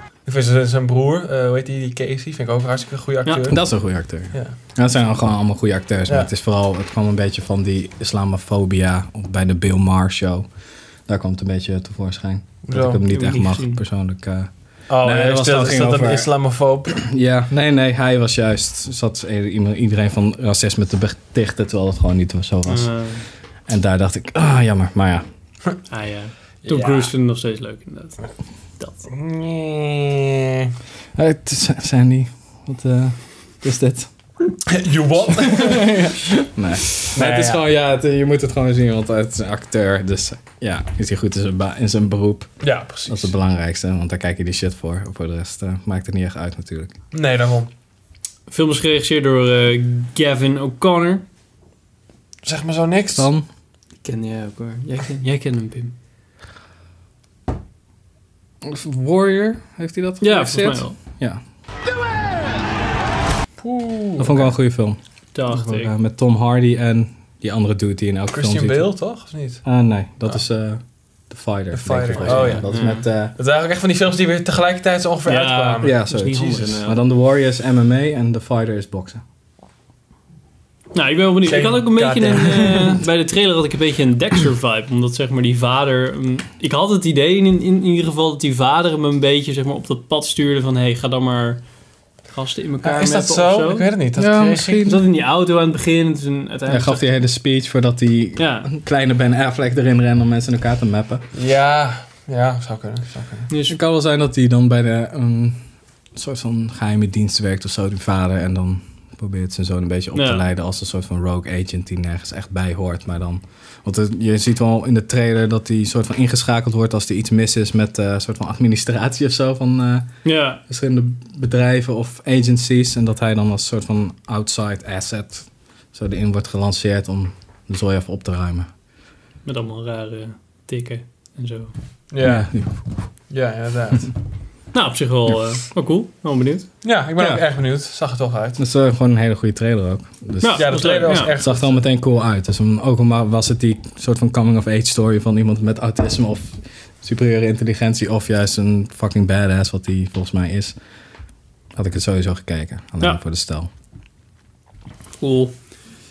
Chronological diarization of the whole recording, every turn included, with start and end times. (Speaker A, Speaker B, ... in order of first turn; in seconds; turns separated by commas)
Speaker A: 0.3-4.6, Speaker B: 3.2-3.5, Speaker C: 3.5-10.5, Speaker C: 11.1-16.3, Speaker A: 12.7-13.0, Speaker B: 13.1-13.8, Speaker A: 14.9-17.0, Speaker C: 16.9-25.2, Speaker B: 22.7-23.3, Speaker B: 25.9-28.2, Speaker A: 26.7-27.1, Speaker B: 28.8-29.1, Speaker A: 29.1-30.7, Speaker C: 31.1-34.1, Speaker A: 34.7-36.1, Speaker C: 35.3-47.0, Speaker A: 37.0-37.6, Speaker A: 42.6-43.3, Speaker A: 47.1-47.7, Speaker B: 48.5-51.2, Speaker A: 52.5-53.3, Speaker C: 53.1-53.5, Speaker B: 54.0-55.9, Speaker C: 58.6-61.4, Speaker B: 60.2-61.0, Speaker A: 63.6-64.5, Speaker C: 64.2-68.9, Speaker B: 65.3-65.9, Speaker A: 68.3-69.6, Speaker C: 69.6-73.3, Speaker A: 71.7-76.7, Speaker B: 72.2-73.0, Speaker B: 75.3-77.0, Speaker C: 75.8-79.2, Speaker B: 80.9-91.6, Speaker A: 81.4-83.0, Speaker B: 92.2-93.9, Speaker A: 92.8-94.8, Speaker C: 94.2-95.0, Speaker B: 94.9-97.1, Speaker C: 96.7-101.2, Speaker B: 98.4-98.7, Speaker A: 101.3-103.5, Speaker B: 103.5-103.8, Speaker C: 103.7-105.6, Speaker C: 106.1-128.7, Speaker B: 110.1-110.5, Speaker B: 120.2-120.6, Speaker B: 129.4-131.7, Speaker A: 132.1-132.7, Speaker C: 132.2-132.8, Speaker A: 133.3-134.1, Speaker B: 134.7-136.7, Speaker A: 136.8-138.6, Speaker C: 137.2-137.4, Speaker C: 138.6-150.8, Speaker B: 140.4-141.3, Speaker A: 140.6-141.8, Speaker C: 151.8-153.7, Speaker B: 155.2-155.8